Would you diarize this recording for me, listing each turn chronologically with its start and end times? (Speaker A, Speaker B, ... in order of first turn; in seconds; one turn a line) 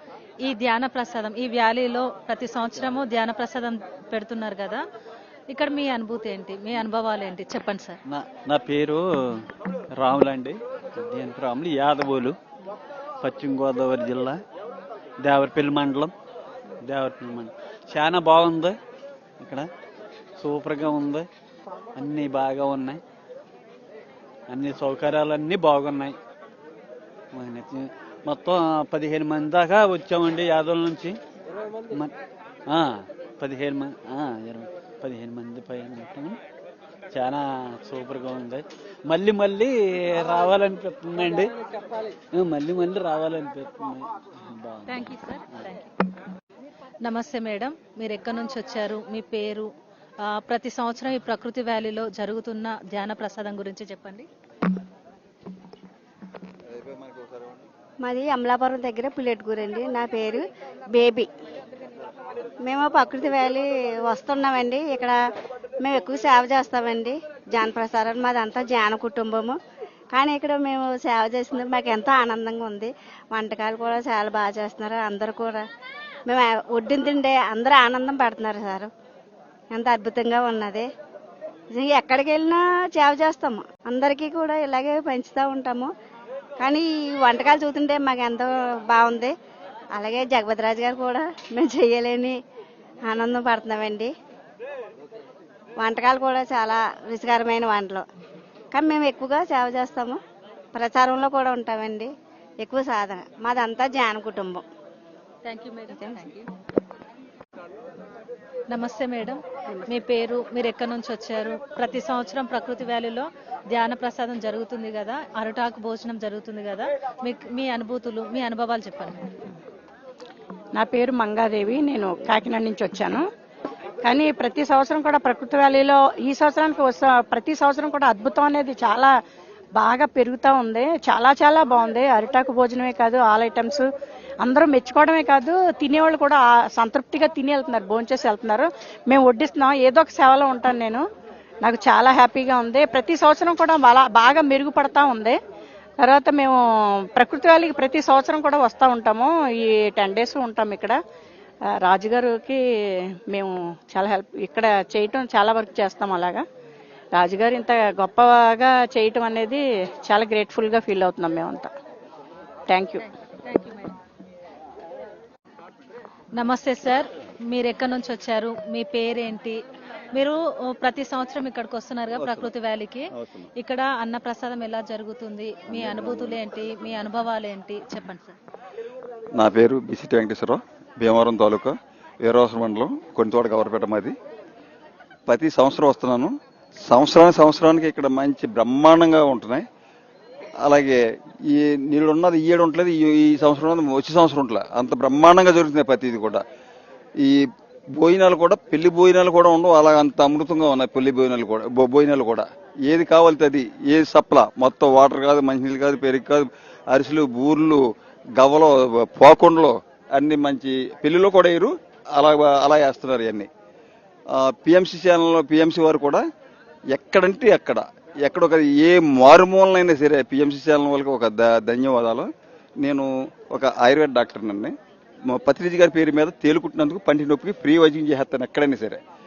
Speaker A: 0.4-4.8
Speaker A: 5.5-8.0
Speaker B: 8.1-9.0
Speaker B: 9.9-12.3
Speaker B: 13.2-14.4
Speaker B: 15.2-16.1
Speaker B: 16.8-18.7
Speaker B: 19.4-19.7
Speaker B: 20.4-21.3
Speaker B: 21.9-23.0
Speaker B: 24.5-26.1
Speaker B: 27.3-31.1
Speaker B: 32.7-36.4
Speaker B: 37.1-41.5
Speaker B: 42.3-45.0
Speaker A: 44.9-45.9
Speaker A: 47.0-49.7
Speaker A: 50.2-54.2
Speaker C: 56.7-57.6
Speaker D: 58.0-61.3
Speaker D: 62.6-65.2
Speaker D: 65.8-69.6
Speaker D: 70.1-75.6
Speaker D: 76.2-78.9
Speaker D: 79.7-80.9
Speaker D: 81.7-85.9
Speaker D: 86.6-89.3
Speaker D: 90.0-92.3
Speaker D: 93.1-94.1
Speaker D: 95.8-98.0
Speaker D: 98.7-100.2
Speaker D: 100.7-102.1
Speaker D: 102.6-104.6
Speaker A: 105.5-106.5
Speaker A: 108.7-119.2
Speaker E: 120.8-123.1
Speaker E: 124.2-129.0
Speaker E: 129.9-133.8
Speaker E: 134.5-138.6
Speaker E: 139.2-141.0
Speaker E: 141.7-145.3
Speaker E: 146.1-146.5
Speaker E: 147.2-149.2
Speaker E: 150.0-150.9
Speaker E: 151.9-152.5
Speaker E: 154.0-156.4
Speaker E: 157.2-159.5
Speaker E: 160.1-161.6
Speaker A: 163.0-163.9
Speaker A: 166.3-169.6
Speaker A: 170.1-178.3
Speaker C: 172.2-172.5
Speaker C: 173.2-173.4
Speaker C: 175.7-176.4
Speaker C: 179.4-184.2
Speaker C: 185.3-186.3
Speaker C: 186.8-189.6
Speaker C: 190.6-191.0
Speaker C: 191.5-196.4
Speaker C: 197.9-207.8
Speaker C: 208.4-213.5
Speaker C: 214.4-216.2
Speaker C: 216.9-222.3
Speaker C: 222.8-224.7
Speaker C: 225.3-229.0